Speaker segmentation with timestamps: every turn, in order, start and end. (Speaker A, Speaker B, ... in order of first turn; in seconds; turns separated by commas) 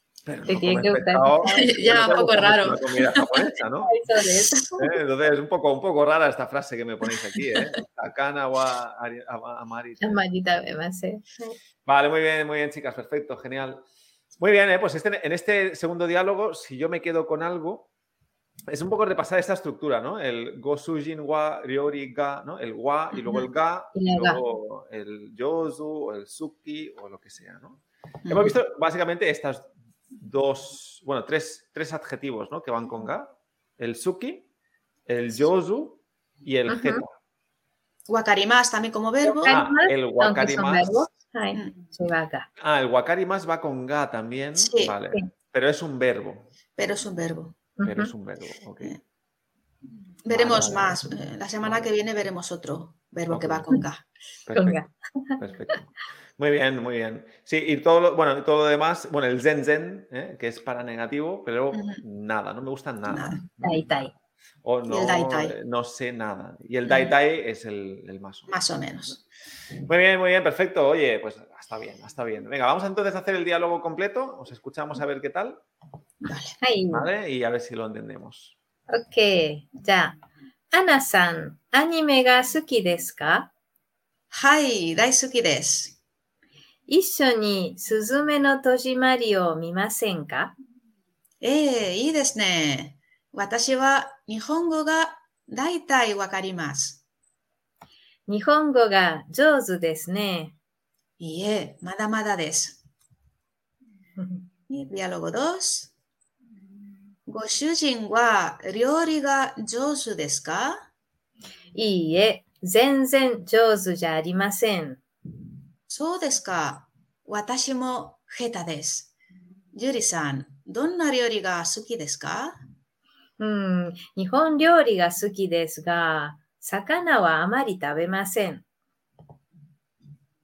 Speaker A: 0.2-3.9, Speaker B: 0.5-2.5, Speaker C: 1.4-3.0, Speaker B: 3.8-4.9, Speaker A: 4.8-10.2, Speaker B: 10.0-11.6, Speaker A: 11.8-13.8, Speaker A: 14.4-17.9, Speaker A: 18.7-34.5, Speaker B: 23.9-24.4, Speaker C: 28.2-28.6, Speaker A: 35.1-37.1, Speaker B: 36.7-37.0, Speaker C: 38.1-39.6, Speaker B: 39.2-42.5, Speaker A: 39.4-41.1, Speaker A: 42.6-46.5, Speaker C: 44.5-44.9, Speaker C: 46.8-47.5, Speaker B: 47.8-48.1, Speaker A: 47.8-49.0, Speaker C: 50.2-54.0, Speaker A: 50.3-51.1, Speaker A: 51.6-51.9, Speaker A: 53.3-53.8, Speaker A: 54.5-54.8, Speaker B: 54.5-55.4, Speaker A: 55.4-63.9, Speaker C: 61.7-62.0, Speaker C: 63.1-63.4, Speaker B: 63.6-64.1, Speaker A: 64.6-69.2, Speaker C: 64.9-65.5, Speaker C: 66.8-67.1, Speaker C: 68.5-69.2, Speaker A: 69.8-75.6, Speaker C: 76.2-76.6, Speaker B: 76.6-77.1, Speaker A: 76.9-78.5, Speaker B: 78.9-80.2, Speaker B: 80.7-83.5, Speaker C: 84.3-86.0, Speaker B: 86.9-90.5, Speaker C: 91.4-97.0, Speaker B: 98.3-100.5, Speaker C: 101.2-102.8, Speaker B: 104.2-104.5, Speaker C: 104.7-105.9, Speaker C: 107.3-110.9, Speaker B: 111.7-115.0, Speaker C: 115.9-119.1, Speaker C: 119.7-122.6, Speaker B: 123.4-128.7